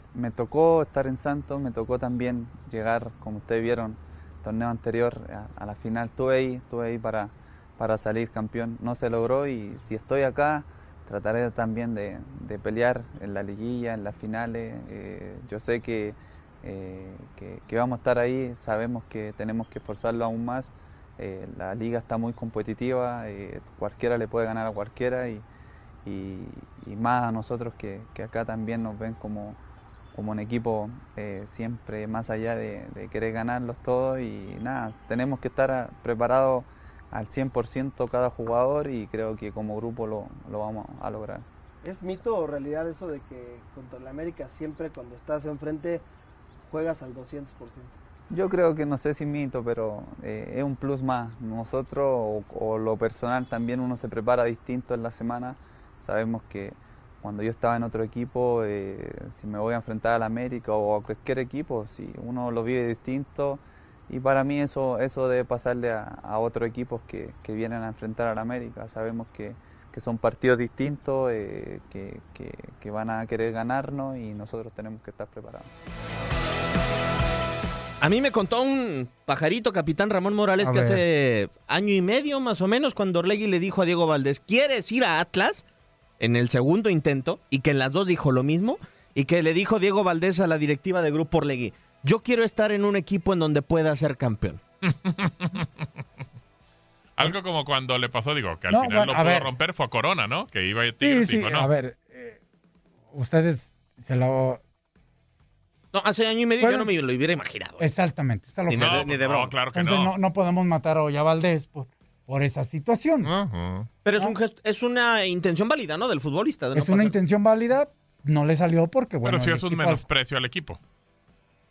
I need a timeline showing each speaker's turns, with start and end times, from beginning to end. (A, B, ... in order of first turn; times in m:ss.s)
0:00.1-0:25.4 A
0:26.0-0:29.6 A
0:30.1-0:41.4 A
0:41.8-0:46.0 B
0:46.7-0:48.0 B
0:48.3-1:15.7 A
1:18.0-1:25.6 C
1:20.6-1:21.0 D
1:26.2-1:34.6 C
1:34.9-1:35.7 E
1:37.2-1:41.7 E
1:38.7-1:39.5 D
1:41.0-1:42.4 D
1:43.1-1:44.6 D
1:45.9-1:47.9 C
1:46.6-1:46.9 D
1:47.8-1:49.1 D
1:48.7-1:49.6 C
1:48.8-1:50.2 E
1:49.6-1:53.3 D
1:53.2-1:53.9 E
1:54.0-1:57.2 C
1:56.8-2:00.0 D
1:59.2-2:00.8 E